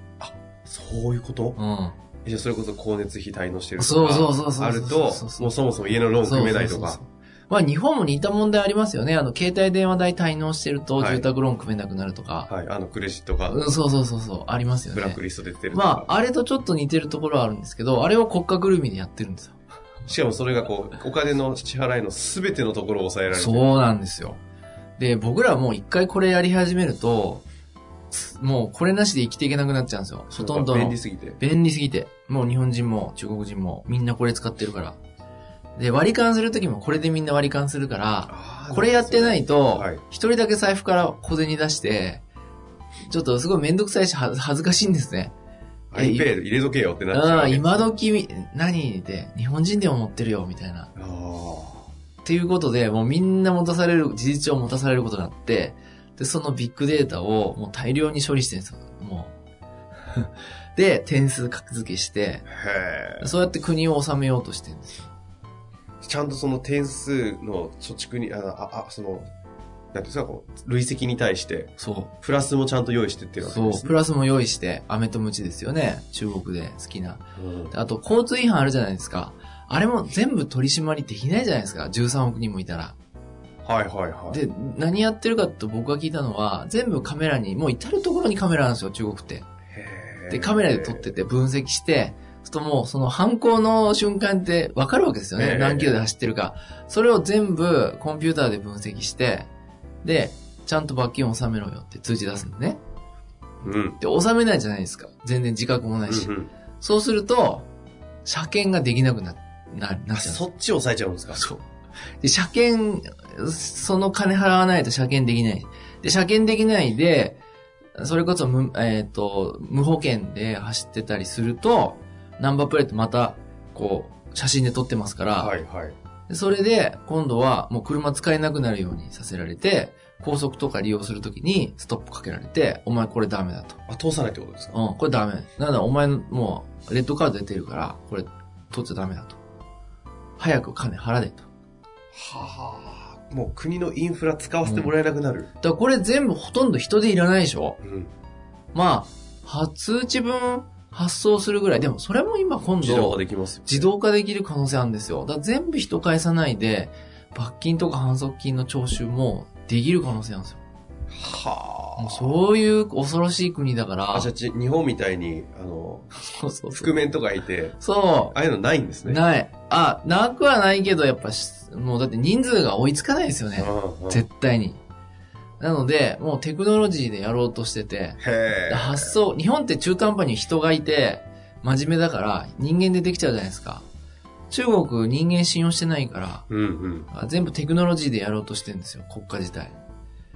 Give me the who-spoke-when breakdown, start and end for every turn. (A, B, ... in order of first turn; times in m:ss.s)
0:00.2-0:01.6 A
0:01.6-0:02.0 B
0:02.2-0:07.0 A
0:03.8-0:05.5 B
0:06.2-0:12.5 B
0:11.0-0:11.3 A
0:12.5-0:13.7 A
0:13.5-0:15.2 B
0:14.9-0:16.1 A
0:15.7-0:19.6 B
0:20.0-0:23.7 A
0:23.3-0:24.4 B
0:25.0-0:27.4 B
0:28.1-0:35.0 B
0:30.3-0:31.4 A
0:35.8-0:42.2 B
0:38.3-0:40.0 A
0:43.0-0:45.3 B
0:45.9-0:47.9 A
0:45.9-0:46.3 B
0:47.1-0:50.9 B
0:51.0-0:51.9 A
0:52.2-0:59.3 B
1:00.1-1:02.4 B
1:02.5-1:03.3 A
1:03.2-1:05.1 B
1:06.0-1:09.3 A
1:09.9-1:13.9 A
1:11.8-1:12.1 B
1:13.4-1:23.0 B
1:17.4-1:17.7 A
1:23.6-1:24.4 A
1:24.3-1:29.4 B
1:29.7-1:31.1 A
1:30.3-1:39.5 B
1:35.4-1:36.0 A
1:40.0-1:42.8 B
1:43.6-1:44.0 A
1:44.0-1:47.7 B
1:46.1-1:46.5 A
1:48.2-1:50.4 B
1:50.1-1:51.4 A
1:51.3-1:51.6 B
1:52.2-1:57.4 B
1:58.0-2:05.6 B
2:05.3-2:06.0 A
2:06.3-2:13.8 B
2:13.9-2:14.8 A
2:14.7-2:19.4 B
2:20.4-2:21.5 B
2:22.1-2:25.5 A
2:24.6-2:24.9 B
2:25.6-2:27.8 B
2:27.8-2:28.1 A
2:28.7-2:40.6 B
2:32.8-2:33.9 A
2:41.1-2:42.3 A
2:42.0-2:44.3 B
2:44.1-2:46.1 A
2:46.2-2:47.0 B
2:46.7-2:49.2 A
2:47.8-2:48.3 B
2:49.0-2:54.8 B
2:53.6-2:54.2 A
2:55.6-3:03.8 B
2:58.2-2:59.2 A
3:04.5-3:06.5 B
3:06.5-3:07.1 A
3:07.1-3:09.8 B